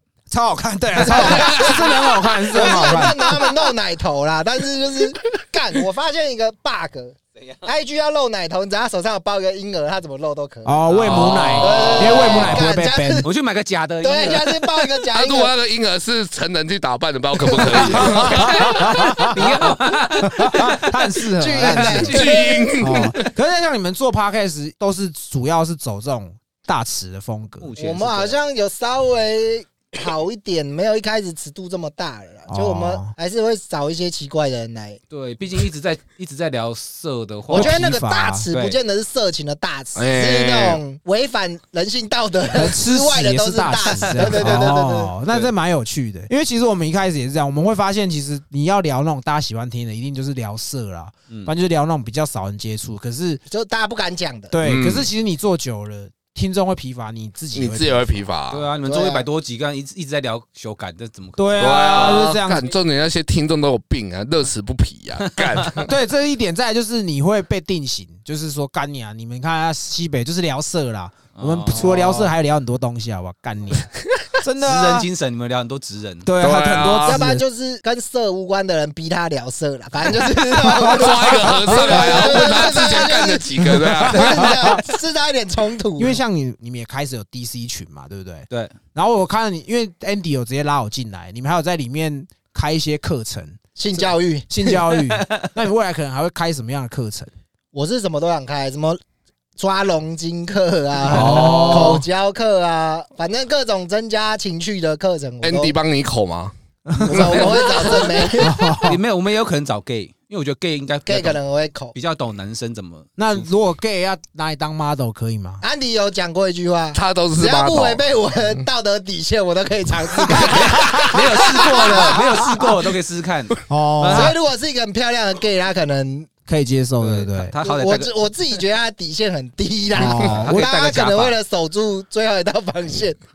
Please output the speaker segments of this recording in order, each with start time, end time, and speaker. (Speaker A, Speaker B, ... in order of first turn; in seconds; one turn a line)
Speaker A: 0.3-3.5
Speaker B: 1.0-10.8
Speaker C: 1.2-2.0
Speaker D: 7.4-7.6
Speaker A: 10.6-13.3
Speaker D: 10.9-12.6
Speaker C: 11.0-12.6
Speaker B: 11.6-13.3
Speaker D: 13.2-14.6
Speaker B: 14.0-15.5
Speaker C: 15.1-18.7
Speaker A: 17.6-19.4
Speaker D: 18.1-22.7
Speaker A: 20.2-27.7
Speaker B: 21.4-22.8
Speaker C: 22.1-23.3
Speaker D: 27.6-28.4
Speaker B: 27.8-35.0
Speaker A: 32.5-33.1
Speaker D: 35.1-37.9
Speaker B: 37.5-45.1
Speaker A: 37.5-38.5
Speaker D: 38.5-38.8
Speaker C: 40.0-40.8
Speaker A: 42.5-53.4
Speaker D: 43.8-44.7
Speaker B: 53.5-54.6
Speaker A: 54.5-58.1
Speaker C: 54.6-55.1
Speaker C: 57.5-58.7
Speaker D: 58.5-61.9
Speaker B: 58.8-59.2
Speaker A: 61.4-62.7
Speaker C: 61.6-65.9
Speaker D: 65.4-65.7
Speaker A: 65.8-73.9
Speaker D: 71.3-72.3
Speaker A: 74.4-75.1
Speaker D: 74.6-76.3
Speaker A: 76.2-77.4
Speaker C: 76.4-77.2
Speaker B: 77.0-86.2
Speaker A: 80.4-82.9
Speaker C: 80.8-84.6
Speaker A: 83.6-84.8
Speaker A: 86.0-97.3
Speaker D: 88.5-88.8
Speaker B: 93.8-94.5
Speaker D: 95.0-95.4
Speaker B: 97.7-99.0
Speaker B: 99.6-105.8
Speaker A: 101.1-102.0
Speaker C: 101.1-102.0
Speaker C: 105.4-106.5
Speaker A: 106.9-107.5
Speaker B: 107.0-108.8
Speaker D: 107.1-111.4
Speaker C: 107.1-107.6
Speaker A: 108.4-109.0
Speaker B: 111.1-111.9
Speaker D: 111.9-113.5
Speaker A: 113.2-115.6
Speaker B: 115.6-122.2
Speaker C: 116.9-118.0
Speaker D: 120.3-124.4
Speaker A: 120.8-122.2
Speaker A: 123.7-124.4
Speaker B: 124.1-126.3
Speaker A: 126.5-127.5
Speaker D: 127.0-128.1
Speaker B: 127.6-133.2
Speaker A: 129.9-130.8
Speaker D: 130.0-131.4